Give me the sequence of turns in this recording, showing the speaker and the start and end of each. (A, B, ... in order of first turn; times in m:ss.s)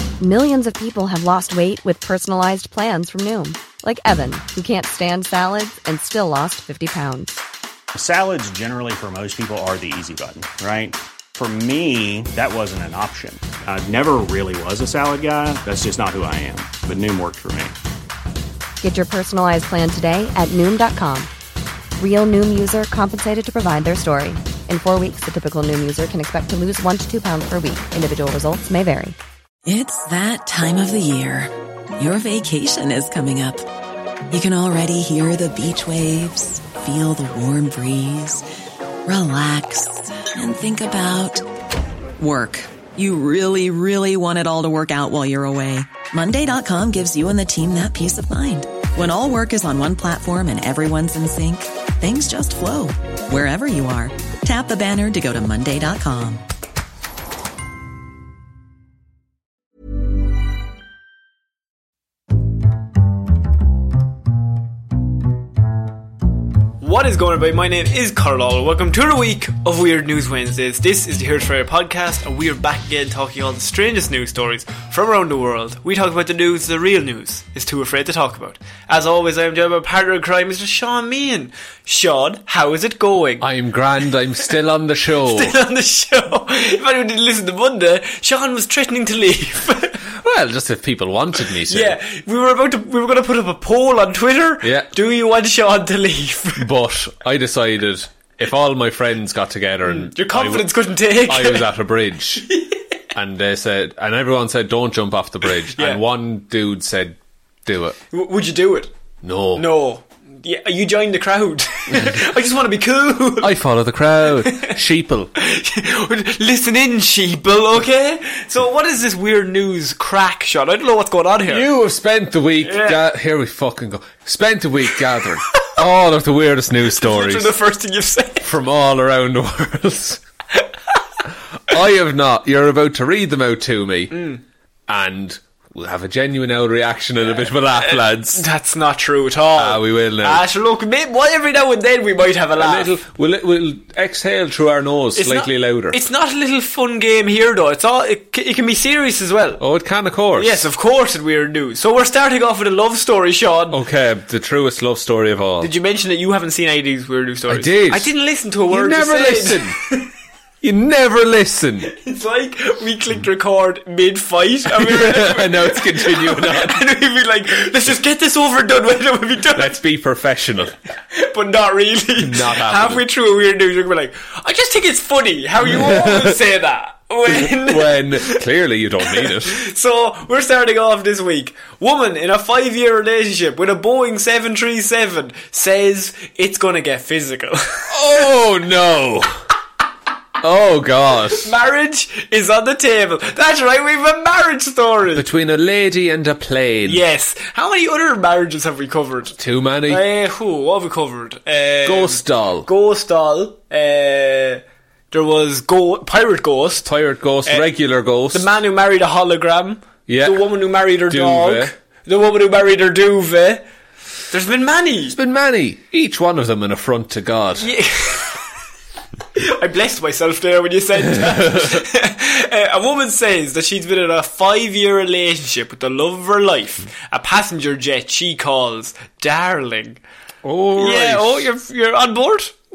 0:00.2-0:07.4 A
0:07.9-0:17.8 B
0:18.8-0:21.3 A
0:22.0-0:29.2 A
0:29.6-0:33.6 C
0:34.3-0:38.4 C
0:39.0-0:41.4 C
0:42.2-0:56.4 C
1:06.8-1:23.4 D
1:23.4-1:25.6 E
1:25.2-1:30.0 D
1:30.1-1:32.0 E
1:31.6-1:36.7 D
1:34.6-1:34.9 E
1:36.6-1:40.7 E
1:39.8-1:41.7 D
1:41.3-1:42.5 E
1:42.4-1:42.8 D
1:43.1-1:48.0 E
1:45.7-1:46.0 D
1:48.1-1:48.9 D
1:49.2-1:49.7 E
1:49.5-1:53.6 D
1:51.9-1:52.2 E
1:53.4-1:55.3 E
1:54.3-1:54.7 D
1:55.4-2:01.7 D
2:01.5-2:07.5 E
2:02.6-2:03.0 D
2:06.9-2:08.5 D
2:08.4-2:10.2 E
2:10.5-2:11.0 D
2:11.7-2:14.3 E
2:14.1-2:14.4 D
2:14.9-2:18.4 E
2:17.4-2:22.9 D
2:19.5-2:20.4 E
2:22.6-2:26.0 E
2:25.2-2:29.6 D
2:29.6-2:30.6 E
2:30.4-2:33.8 D
2:33.7-2:35.7 E
2:35.6-2:40.1 D
2:37.5-2:38.1 E
2:38.7-2:39.8 E
2:40.6-2:41.9 E
2:41.9-2:49.8 D
2:44.6-2:46.8 E
2:49.5-2:50.8 E
2:51.1-2:58.4 D
2:52.2-2:53.0 E
2:55.6-2:56.4 E
2:57.3-2:59.6 E
2:59.0-3:08.1 D
3:07.9-3:09.4 E
3:10.4-3:11.5 E
3:11.3-3:15.2 D
3:15.1-3:17.0 E
3:16.8-3:26.9 D
3:19.4-3:20.0 E
3:21.8-3:22.7 E
3:26.8-3:28.5 E
3:27.4-3:27.7 D
3:28.3-3:33.6 D
3:30.1-3:30.5 E
3:31.1-3:31.7 E
3:34.3-3:35.2 D
3:35.1-3:37.7 E
3:37.6-3:38.5 D
3:39.4-3:50.0 D
3:41.1-3:41.8 E
3:50.4-3:51.5 E
3:50.8-3:52.5 D